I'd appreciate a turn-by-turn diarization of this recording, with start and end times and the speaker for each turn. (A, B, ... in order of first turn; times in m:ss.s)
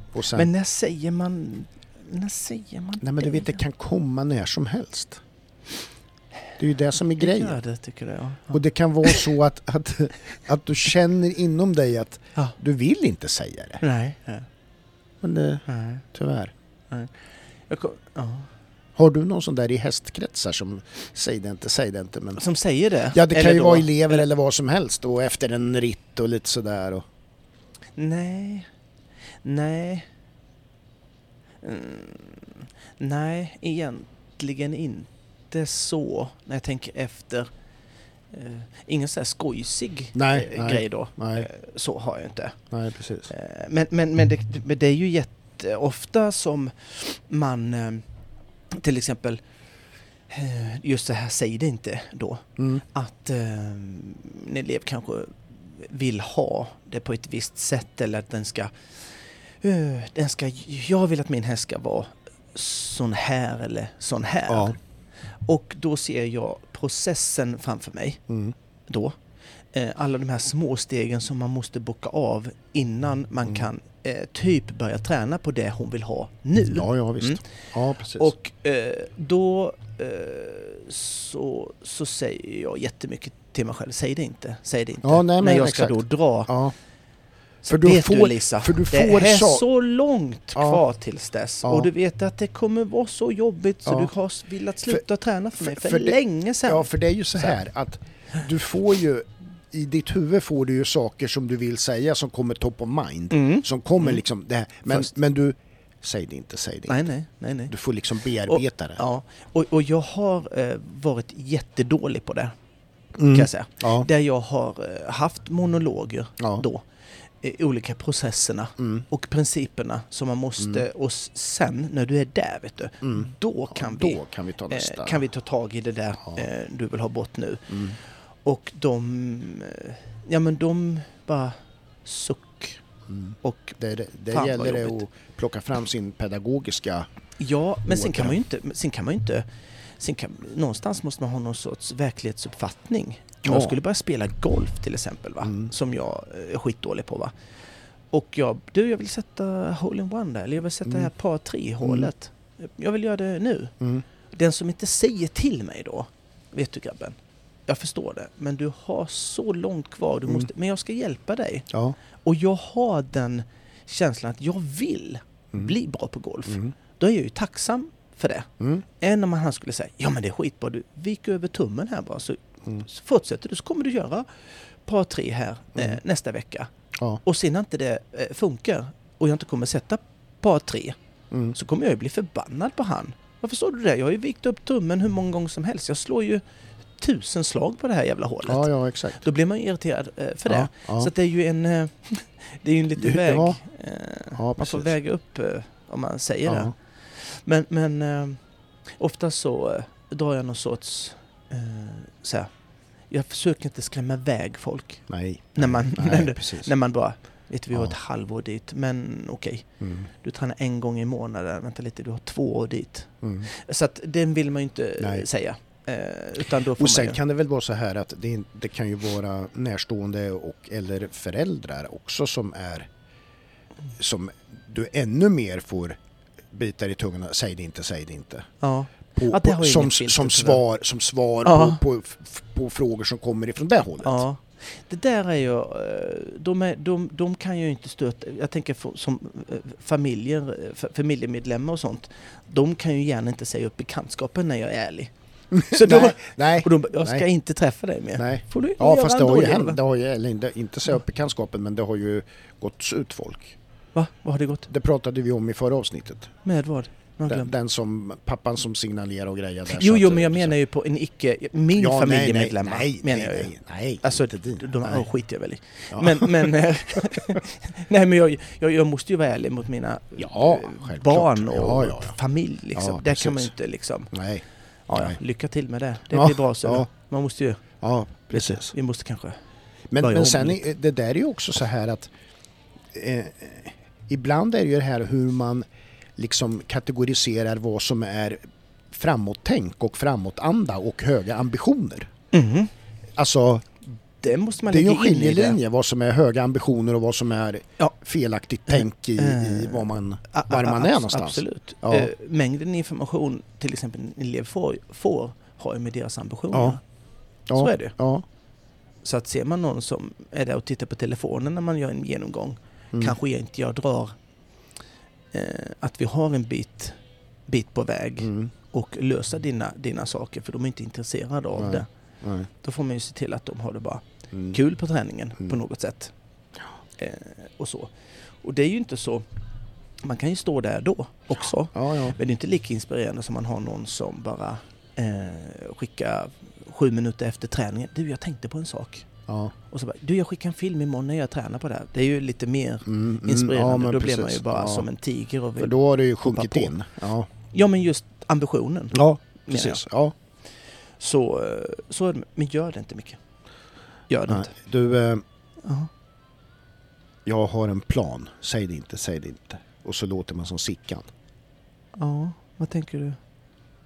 0:00.1-0:00.5 A
0:00.3-0:03.6 B
0:03.0-0:05.2 A
0:06.6-0:07.6 A
0:07.2-0:09.2 B
0:08.5-0:13.8 A
0:13.8-0:14.5 B
0:15.2-0:16.5 A
0:15.7-0:16.0 B
0:17.7-0:18.5 B
0:19.0-0:22.4 A
0:22.4-0:24.2 B
0:23.1-0:27.0 A
0:28.0-0:28.7 B
0:29.4-0:30.1 B
0:31.6-0:37.5 B
0:38.3-0:42.6 B
0:40.1-0:41.5 A
0:42.7-0:43.3 A
0:43.3-0:48.0 B
0:48.7-0:49.4 B
0:50.3-1:04.8 B
0:52.6-0:52.8 A
1:04.5-1:04.8 A
1:05.4-1:08.2 B
1:08.3-1:08.5 A
1:08.9-1:09.2 B
1:09.7-1:17.4 B
1:16.7-1:18.3 A
1:18.1-1:26.5 B
1:25.0-1:26.7 A
1:27.6-1:37.5 B
1:27.7-1:29.6 A
1:30.5-1:30.8 A
1:31.6-1:31.9 A
1:35.6-1:47.0 A
1:43.3-1:44.2 B
1:46.9-1:47.7 B
1:47.7-1:49.0 A
1:48.4-1:52.5 B
1:53.2-1:54.1 A
1:53.3-1:56.8 B
1:56.4-1:56.6 A
1:57.4-2:12.8 B
1:58.8-1:59.0 A
2:00.6-2:00.8 A
2:03.0-2:05.2 A
2:07.7-2:08.0 A
2:13.1-2:17.1 A
2:13.4-2:13.8 B
2:14.3-2:15.0 B
2:17.4-2:19.4 B
2:17.9-2:18.4 A
2:20.0-2:27.3 B
2:23.4-2:23.8 A
2:25.4-2:25.7 A
2:28.1-2:33.7 B
2:31.8-2:32.1 A
2:34.3-2:37.2 B
2:37.7-2:41.7 B
2:41.7-2:42.0 A
2:42.2-2:54.3 B
2:46.5-2:46.7 A
2:54.8-2:56.7 B
2:57.2-3:01.0 B
3:01.5-3:06.4 B
3:07.0-3:08.7 B
3:08.4-3:09.2 A
3:09.2-3:18.4 B
3:10.5-3:11.1 A
3:13.0-3:13.6 A
3:14.3-3:14.9 A
3:16.4-3:16.7 A
3:19.0-3:22.5 B
3:23.1-3:37.2 B
3:25.1-3:26.7 A
3:29.8-3:30.1 A
3:33.2-3:33.5 A
3:35.0-3:35.3 A
3:36.6-3:42.9 A
3:44.0-3:46.0 A
3:46.5-3:48.5 A
3:48.6-3:50.6 B
3:49.1-3:54.2 A
3:51.4-3:51.8 B
3:54.0-4:09.8 B
4:05.5-4:07.3 A
4:08.2-4:13.6 A
4:13.9-4:14.7 B
4:14.7-4:16.3 A
4:16.4-4:17.5 B
4:17.3-4:20.6 A
4:19.7-4:34.1 B
4:21.7-4:25.1 A
4:25.9-4:27.4 A
4:30.2-4:32.2 A
4:32.7-4:33.5 A
4:34.1-4:35.2 A
4:34.9-4:37.6 B
4:36.1-4:36.9 A
4:37.8-4:38.7 A
4:38.3-4:39.4 B
4:39.9-4:42.1 A
4:40.0-4:40.6 B
4:42.9-4:45.6 A
4:46.2-4:48.4 A
4:48.9-4:52.1 A
4:52.3-4:52.7 B
4:53.2-4:53.7 A
4:54.2-4:55.6 B
4:54.7-5:02.1 A
4:58.7-5:06.8 B
5:06.5-5:06.8 A
5:07.5-5:08.2 A
5:07.5-5:07.9 B
5:09.0-5:14.2 B
5:15.3-5:21.9 B
5:18.2-5:18.5 A
5:21.5-5:22.5 A
5:22.6-5:26.1 B
5:24.3-5:24.6 A
5:27.0-5:29.2 B
5:30.0-5:39.1 B
5:31.7-5:32.2 A
5:39.3-5:39.5 A
5:39.7-5:46.7 B
5:42.8-5:44.9 A
5:45.6-5:47.3 A
5:47.5-5:49.8 B
5:48.9-5:50.1 A
5:51.0-5:53.2 B
5:54.1-5:54.5 B
5:54.3-5:55.2 A
5:55.6-5:55.9 B
5:57.2-6:01.1 A
6:02.0-6:03.2 B